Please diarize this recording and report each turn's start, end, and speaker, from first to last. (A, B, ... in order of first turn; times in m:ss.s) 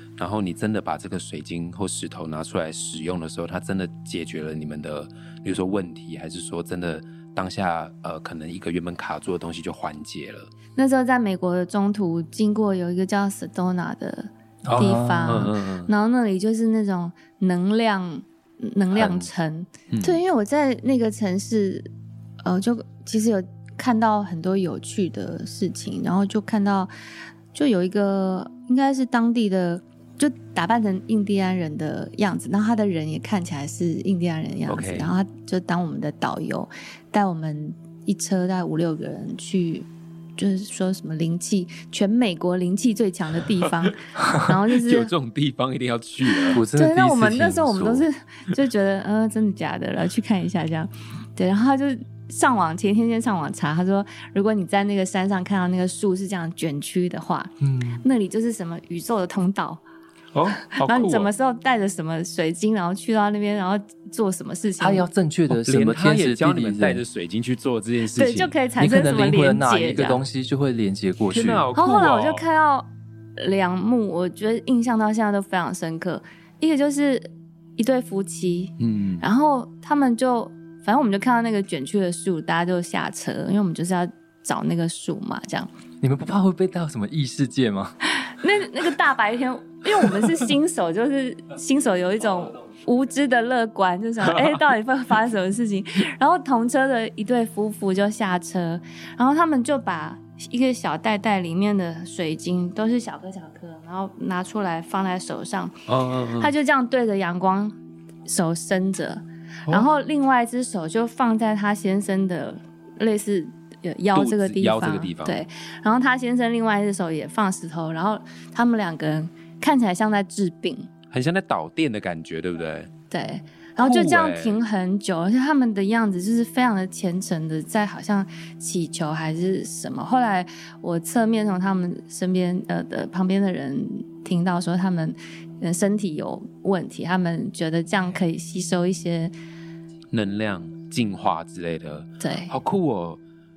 0:00.2-0:10.5 A
0:10.8-0:21.9 B
0:14.6-0:15.5 C
0:14.7-0:15.9 A
0:19.9-0:20.2 A
0:22.4-0:26.9 B
0:27.5-0:45.1 B
0:34.7-0:35.1 A
0:43.6-0:43.9 A
0:44.7-0:46.6 A
0:46.5-0:48.1 C
0:46.7-0:59.8 B
0:57.6-0:58.0 C
1:00.3-1:01.3 A
1:00.7-1:05.0 B
1:04.8-1:07.0 C
1:05.5-1:08.6 A
1:08.2-1:10.2 B
1:08.8-1:11.7 C
1:11.3-1:12.4 A
1:11.8-1:25.7 B
1:18.8-1:19.2 A
1:26.0-1:28.0 C
1:28.1-1:45.8 B
1:45.9-1:46.5 A
1:46.4-1:47.8 B
1:48.3-2:00.9 B
1:54.1-1:55.4 A
2:01.1-2:02.9 A
2:03.1-2:19.3 B
2:03.8-2:04.6 A
2:20.1-2:23.2 A
2:22.2-2:22.6 B